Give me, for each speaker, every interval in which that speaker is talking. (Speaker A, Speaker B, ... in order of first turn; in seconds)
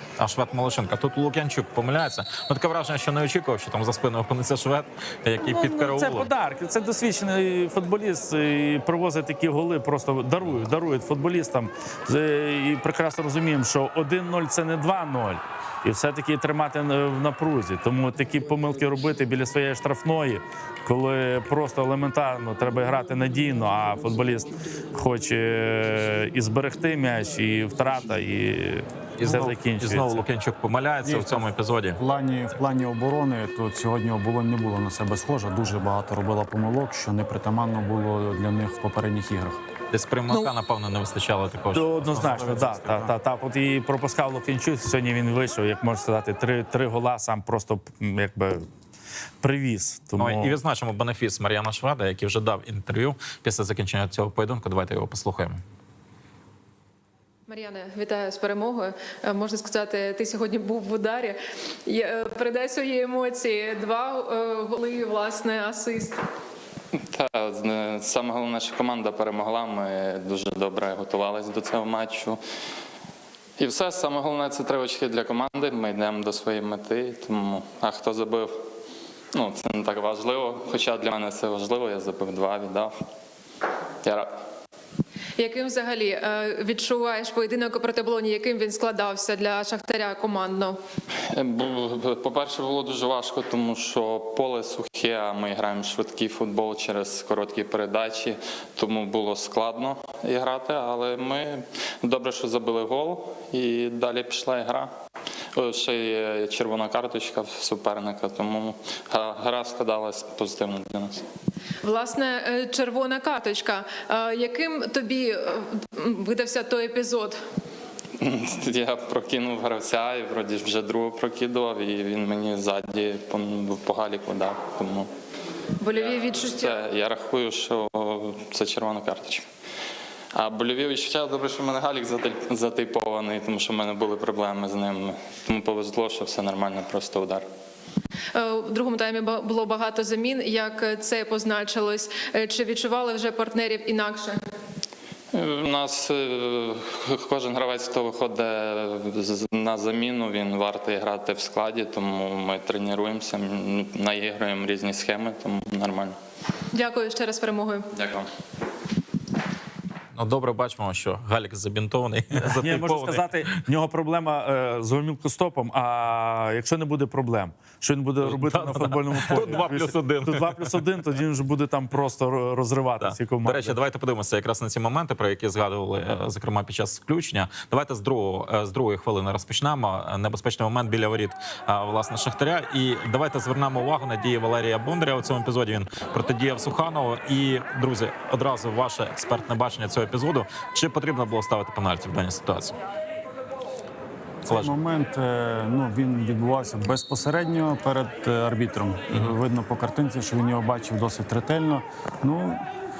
Speaker A: 0.2-6.3, 29.2-32.0, 39.9-43.1, 50.2-55.6, 160.1-163.6, 168.2-170.8, 173.0-192.8, 194.5-194.7
Speaker B: 5.4-30.2, 41.7-48.6, 49.4-50.6, 162.4-173.8
Speaker C: 31.0-39.6, 42.3-42.9, 194.4-202.6
Speaker D: 57.5-66.2, 85.4-90.8, 111.8-117.4, 125.8-126.8, 138.3-144.4, 156.7-157.9
Speaker E: 66.9-72.4, 73.6-78.6, 79.3-83.0, 84.0-84.3, 91.3-104.9, 105.5-111.3, 118.2-125.1, 125.9-129.5, 130.3-137.5, 145.3-156.2, 157.9-158.3